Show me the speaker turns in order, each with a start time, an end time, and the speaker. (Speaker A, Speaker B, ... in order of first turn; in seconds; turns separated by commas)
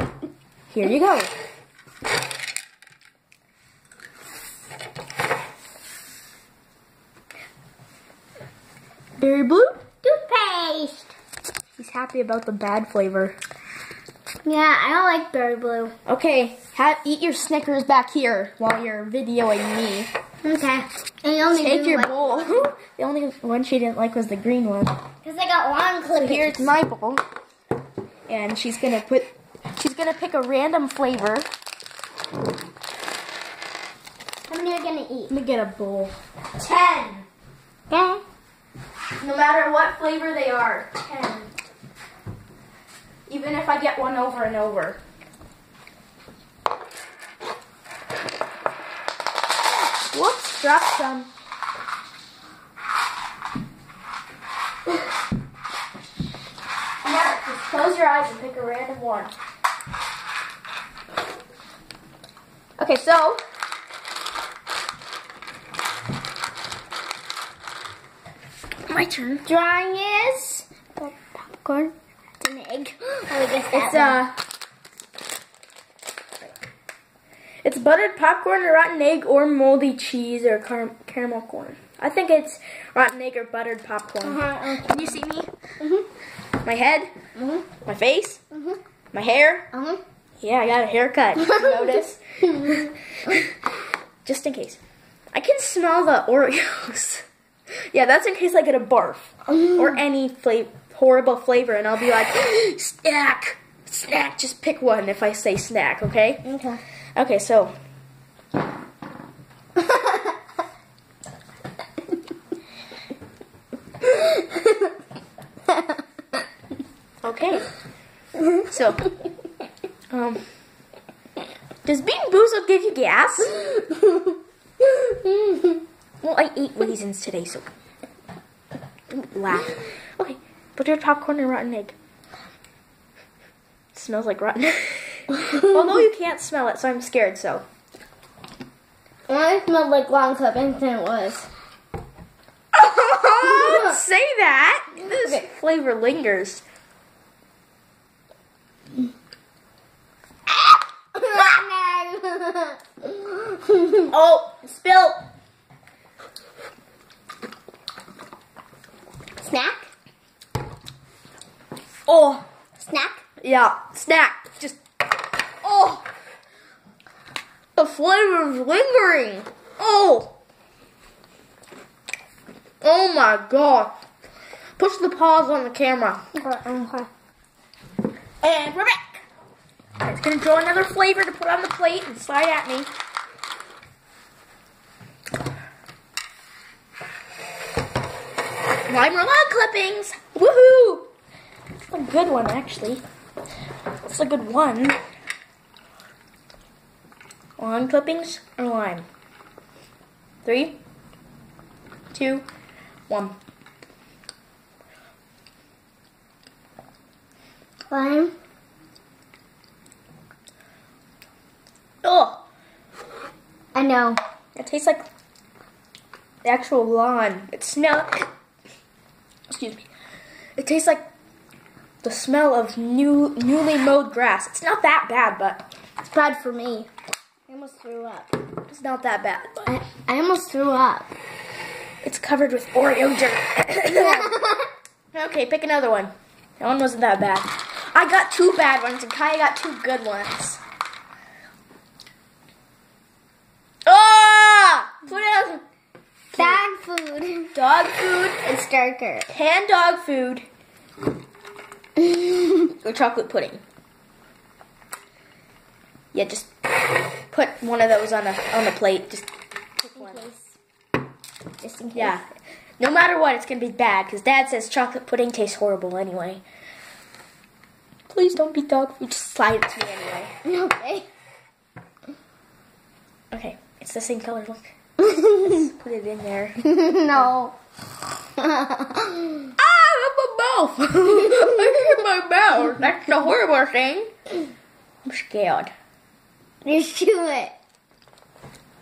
Speaker A: 0.7-1.3, Speaker A: 9.2-9.8, Speaker B: 10.0-11.1, Speaker A: 11.8-13.4, Speaker B: 14.4-15.9, Speaker A: 16.1-20.1, Speaker B: 20.4-22.7, Speaker A: 21.5-25.0, Speaker B: 25.2-26.7, Speaker A: 26.2-27.2, Speaker A: 28.3-31.4, Speaker B: 34.5-35.3, Speaker A: 35.3-37.3, Speaker B: 37.9-38.2, Speaker A: 39.2-41.5, Speaker A: 43.3-45.0, Speaker A: 50.1-51.3, Speaker A: 57.0-59.3, Speaker A: 62.8-63.4, Speaker A: 68.9-69.5, Speaker B: 69.5-74.2, Speaker A: 73.7-74.4, Speaker A: 77.6-85.5, Speaker B: 84.2-85.2, Speaker B: 85.8-86.0, Speaker A: 86.6-87.1, Speaker B: 87.3-87.6, Speaker A: 87.8-88.4, Speaker B: 88.5-88.8, Speaker A: 89.1-89.7, Speaker B: 89.7-90.0, Speaker A: 90.4-93.6, Speaker B: 91.4-92.0, Speaker B: 92.6-92.9, Speaker A: 94.2-94.8, Speaker A: 95.3-97.2, Speaker A: 97.9-106.5, Speaker B: 99.5-100.0, Speaker B: 106.4-106.8, Speaker A: 107.2-107.7, Speaker B: 109.9-110.2, Speaker B: 114.1-114.7, Speaker A: 117.2-117.7, Speaker A: 118.6-119.1, Speaker A: 120.1-120.5, Speaker A: 121.8-123.7, Speaker A: 126.2-127.7, Speaker A: 129.1-131.9, Speaker A: 133.9-137.6, Speaker B: 139.3-141.5, Speaker A: 142.7-146.6, Speaker B: 143.1-144.0, Speaker B: 145.1-145.4, Speaker B: 150.5-154.1, Speaker A: 154.1-155.2, Speaker B: 159.4-159.9, Speaker A: 162.1-162.4, Speaker B: 162.8-163.2, Speaker A: 163.4-164.8, Speaker A: 165.6-166.0, Speaker A: 167.8-170.3, Speaker A: 172.8-173.9, Speaker A: 174.8-176.2, Speaker B: 176.3-177.1, Speaker A: 178.4-179.2, Speaker A: 180.0-182.9, Speaker A: 188.9-191.1, Speaker A: 191.9-193.0, Speaker A: 194.1-195.0, Speaker A: 197.6-199.1, Speaker A: 200.4-200.8, Speaker A: 202.1-202.4, Speaker A: 203.1-203.3, Speaker B: 207.9-208.3, Speaker A: 212.0-212.4, Speaker B: 213.7-214.2, Speaker A: 214.5-215.1, Speaker A: 216.4-218.2, Speaker A: 219.5-219.8, Speaker A: 220.6-221.1, Speaker A: 222.0-225.6, Speaker B: 226.0-226.9, Speaker B: 227.5-228.4, Speaker A: 228.7-229.7, Speaker B: 229.7-231.1, Speaker A: 232.0-234.4, Speaker B: 234.0-234.7, Speaker A: 235.1-240.6, Speaker A: 243.8-245.6, Speaker B: 246.3-247.5, Speaker A: 246.3-246.6, Speaker A: 247.5-248.4, Speaker B: 248.4-249.3, Speaker A: 249.3-250.4, Speaker B: 252.0-252.5, Speaker A: 252.5-253.6, Speaker A: 256.1-260.2, Speaker B: 260.0-260.6, Speaker B: 261.6-262.2, Speaker A: 261.9-262.2, Speaker A: 262.8-266.4, Speaker A: 268.1-270.3, Speaker B: 270.4-271.1, Speaker A: 273.3-274.7, Speaker B: 275.0-275.7, Speaker A: 275.3-277.3, Speaker B: 276.6-277.6, Speaker B: 278.4-279.5, Speaker A: 279.6-284.1, Speaker B: 281.1-282.0, Speaker A: 285.0-285.7, Speaker B: 286.6-287.5